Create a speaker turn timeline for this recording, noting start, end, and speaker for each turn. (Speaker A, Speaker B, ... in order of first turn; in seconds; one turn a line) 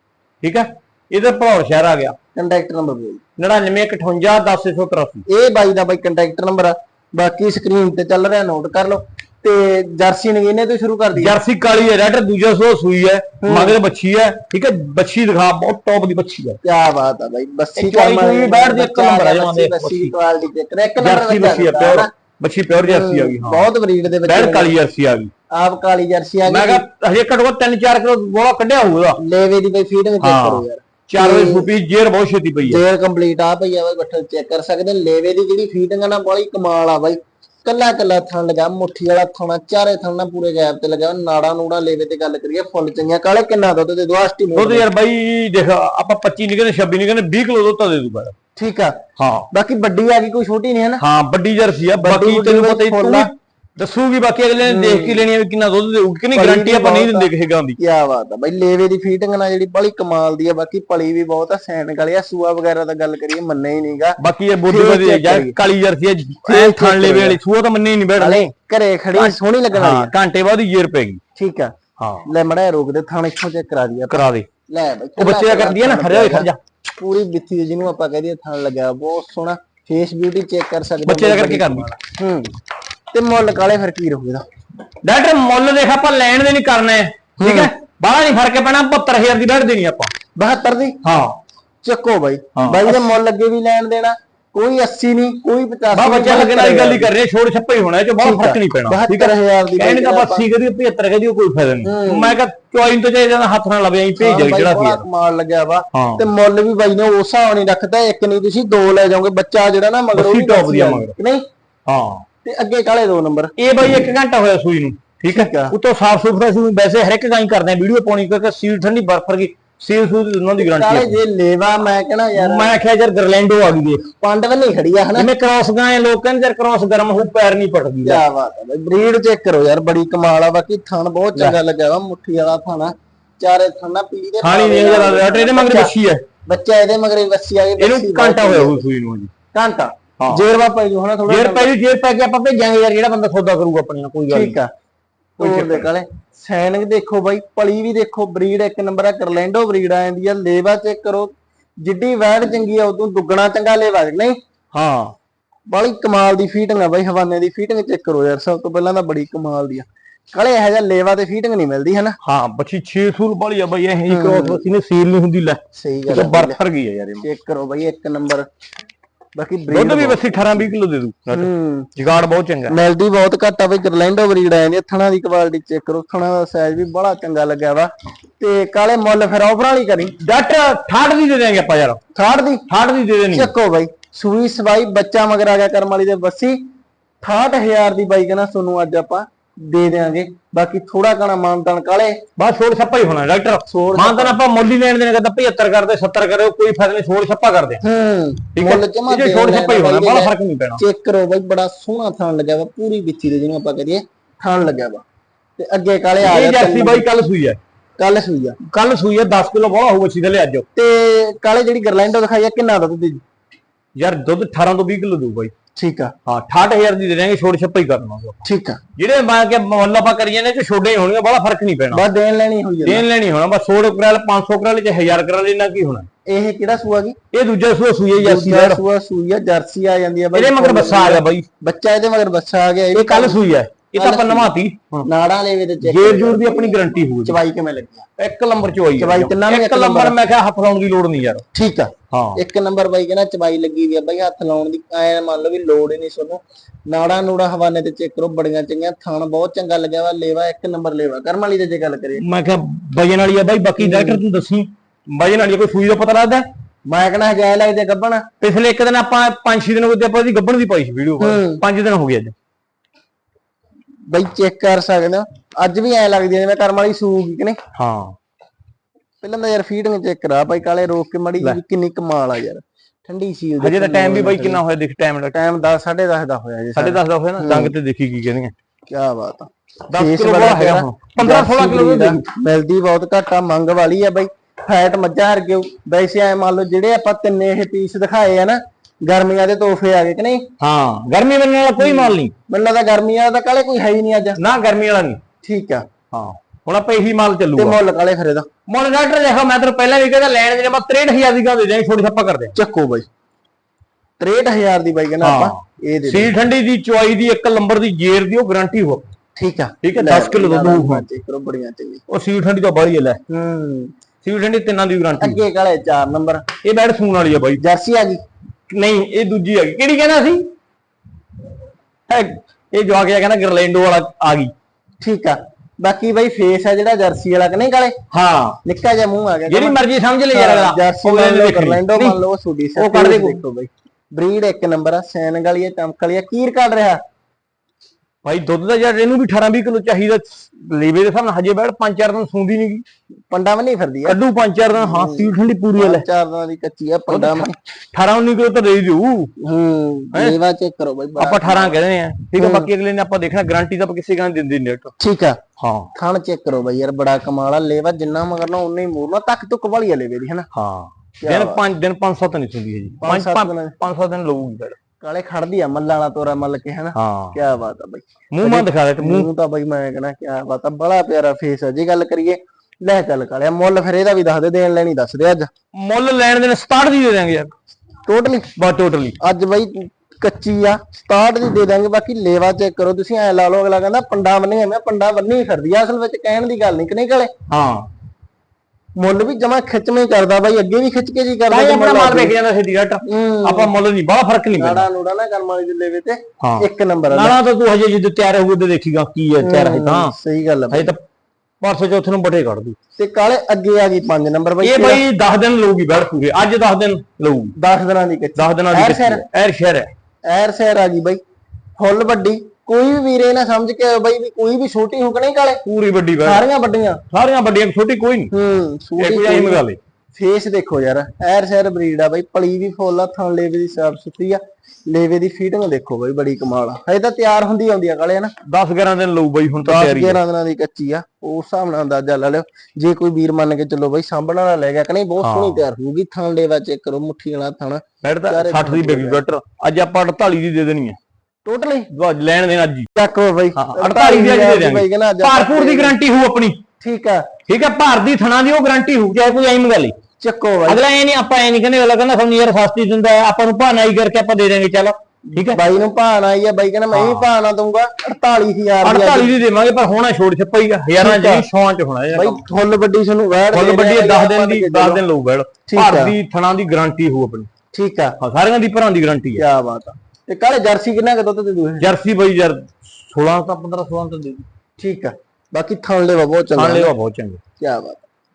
Speaker A: 0.4-2.2
Speaker B: 2.4-3.2
Speaker A: 3.4-5.2
Speaker B: 5.3-11.4
Speaker A: 11.2-16.6
Speaker B: 13.4-13.8
Speaker B: 16.6-22.1
Speaker A: 17.8-20.1
Speaker A: 21.0-23.6
Speaker B: 22.8-24.7
Speaker A: 24.2-25.3
Speaker B: 25.5-26.8
Speaker A: 26.5-29.2
Speaker B: 29.2-31.7
Speaker A: 30.2-32.8
Speaker B: 32.6-44.9
Speaker A: 44.5-48.3
Speaker B: 48.6-49.0
Speaker A: 49.2-49.5
Speaker B: 49.5-51.0
Speaker A: 51.0-57.8
Speaker B: 52.0-53.3
Speaker B: 54.6-55.2
Speaker B: 56.3-65.5
Speaker A: 64.2-68.5
Speaker B: 66.5-67.4
Speaker B: 68.2-70.1
Speaker A: 69.1-71.2
Speaker B: 71.4-71.7
Speaker A: 72.0-72.3
Speaker B: 72.3-82.5
Speaker A: 74.1-74.5
Speaker A: 75.2-76.6
Speaker A: 81.0-82.0
Speaker B: 83.1-84.4
Speaker A: 85.0-90.1
Speaker B: 87.4-87.7
Speaker B: 90.4-91.0
Speaker A: 91.0-91.4
Speaker B: 91.8-97.1
Speaker A: 92.6-93.1
Speaker A: 95.9-105.0
Speaker B: 98.2-100.4
Speaker B: 101.8-102.4
Speaker B: 104.2-111.4
Speaker A: 105.9-106.2
Speaker A: 110.1-111.1
Speaker A: 111.9-112.2
Speaker B: 112.5-113.5
Speaker A: 113.6-121.2
Speaker B: 115.3-115.8
Speaker B: 120.6-122.8
Speaker A: 122.3-124.1
Speaker B: 124.2-125.3
Speaker A: 125.2-128.2
Speaker B: 128.0-135.9
Speaker A: 134.4-136.2
Speaker B: 136.5-138.8
Speaker A: 137.8-139.3
Speaker B: 139.5-141.7
Speaker A: 140.2-140.4
Speaker A: 141.3-144.6
Speaker B: 144.3-144.7
Speaker A: 145.4-145.9
Speaker B: 145.4-154.4
Speaker A: 154.7-155.2
Speaker B: 155.7-162.2
Speaker A: 162.2-167.3
Speaker B: 164.1-164.6
Speaker B: 165.8-166.6
Speaker B: 167.2-168.5
Speaker B: 169.4-170.7
Speaker A: 169.7-172.8
Speaker B: 171.3-171.9
Speaker B: 172.7-180.2
Speaker A: 180.2-182.0
Speaker B: 182.2-182.6
Speaker A: 182.7-183.5
Speaker B: 183.3-186.6
Speaker B: 187.2-192.2
Speaker A: 192.4-197.8
Speaker B: 193.7-194.4
Speaker B: 197.8-205.0
Speaker A: 198.6-200.8
Speaker B: 205.6-207.1
Speaker A: 206.2-207.6
Speaker B: 208.0-208.6
Speaker A: 208.6-210.7
Speaker B: 210.8-213.2
Speaker A: 214.0-215.5
Speaker B: 215.8-216.1
Speaker A: 216.3-218.4
Speaker B: 218.4-218.8
Speaker A: 219.0-222.0
Speaker B: 221.9-223.1
Speaker A: 222.8-226.1
Speaker B: 226.3-227.2
Speaker A: 227.3-228.8
Speaker B: 228.2-233.4
Speaker A: 230.3-231.5
Speaker A: 232.9-235.1
Speaker B: 233.9-234.5
Speaker B: 235.1-238.1
Speaker A: 235.8-237.4
Speaker A: 238.2-241.4
Speaker B: 239.0-240.2
Speaker B: 241.5-252.2
Speaker A: 242.1-242.4
Speaker A: 252.2-256.5
Speaker B: 253.8-254.2
Speaker B: 256.9-258.2
Speaker A: 258.4-262.3
Speaker B: 261.2-261.6
Speaker B: 264.1-267.6
Speaker A: 267.8-268.1
Speaker B: 269.2-274.6
Speaker A: 273.6-275.4
Speaker B: 275.3-277.7
Speaker A: 276.8-278.5
Speaker B: 278.9-290.4
Speaker A: 279.9-282.2
Speaker A: 290.6-292.3
Speaker B: 291.8-294.4
Speaker A: 294.4-295.2
Speaker B: 295.4-295.9
Speaker A: 296.1-297.8
Speaker B: 297.6-298.5
Speaker A: 298.7-302.6
Speaker B: 302.6-303.1
Speaker B: 304.2-306.3
Speaker A: 305.2-309.1
Speaker B: 309.4-312.0
Speaker A: 309.8-311.0
Speaker A: 312.1-313.2
Speaker B: 313.3-313.9
Speaker A: 314.2-315.4
Speaker B: 315.2-316.4
Speaker A: 316.6-317.6
Speaker B: 317.6-318.2
Speaker A: 318.7-320.5
Speaker A: 322.1-324.5
Speaker B: 325.0-327.9
Speaker A: 328.1-328.6
Speaker B: 328.6-337.0
Speaker A: 329.5-332.2
Speaker A: 332.8-333.4
Speaker A: 338.2-342.8
Speaker B: 343.3-344.2
Speaker A: 344.1-346.1
Speaker B: 344.8-347.5
Speaker A: 347.1-349.3
Speaker B: 349.4-351.8
Speaker A: 350.1-350.4
Speaker A: 351.2-354.9
Speaker B: 352.4-352.7
Speaker B: 355.0-355.4
Speaker A: 355.6-355.9
Speaker B: 355.9-360.5
Speaker A: 360.5-364.8
Speaker B: 361.2-361.6
Speaker B: 363.0-363.8
Speaker B: 365.0-375.5
Speaker A: 366.9-367.4
Speaker A: 368.3-369.3
Speaker A: 375.8-377.5
Speaker B: 378.1-378.5
Speaker A: 378.6-379.2
Speaker B: 379.2-387.3
Speaker A: 387.5-387.9
Speaker B: 389.0-392.3
Speaker A: 391.5-394.9
Speaker B: 393.1-393.7
Speaker B: 394.6-397.4
Speaker A: 396.4-400.1
Speaker B: 399.4-400.9
Speaker A: 400.7-401.0
Speaker A: 401.6-402.8
Speaker B: 403.0-405.0
Speaker A: 404.6-407.5
Speaker B: 407.6-409.2
Speaker A: 408.4-409.9
Speaker B: 410.3-411.2
Speaker B: 411.8-415.6
Speaker A: 415.6-416.4
Speaker B: 416.2-417.0
Speaker A: 417.1-418.3
Speaker B: 418.3-428.3
Speaker A: 419.0-419.8
Speaker A: 428.5-430.2
Speaker B: 429.6-439.2
Speaker A: 435.2-435.6
Speaker A: 438.0-441.0
Speaker B: 441.5-441.9
Speaker A: 441.9-442.9
Speaker B: 443.0-446.0
Speaker A: 443.6-446.6
Speaker B: 446.8-447.3
Speaker A: 447.5-449.9
Speaker B: 450.2-450.8
Speaker A: 450.7-455.6
Speaker B: 455.4-459.3
Speaker A: 456.9-457.3
Speaker A: 458.8-462.4
Speaker B: 461.0-461.5
Speaker B: 462.1-465.0
Speaker A: 463.5-467.5
Speaker B: 465.7-466.2
Speaker B: 467.7-468.2
Speaker A: 468.2-469.4
Speaker B: 469.4-471.9
Speaker A: 471.8-474.5
Speaker B: 474.8-476.9
Speaker A: 476.6-477.4
Speaker B: 477.6-478.1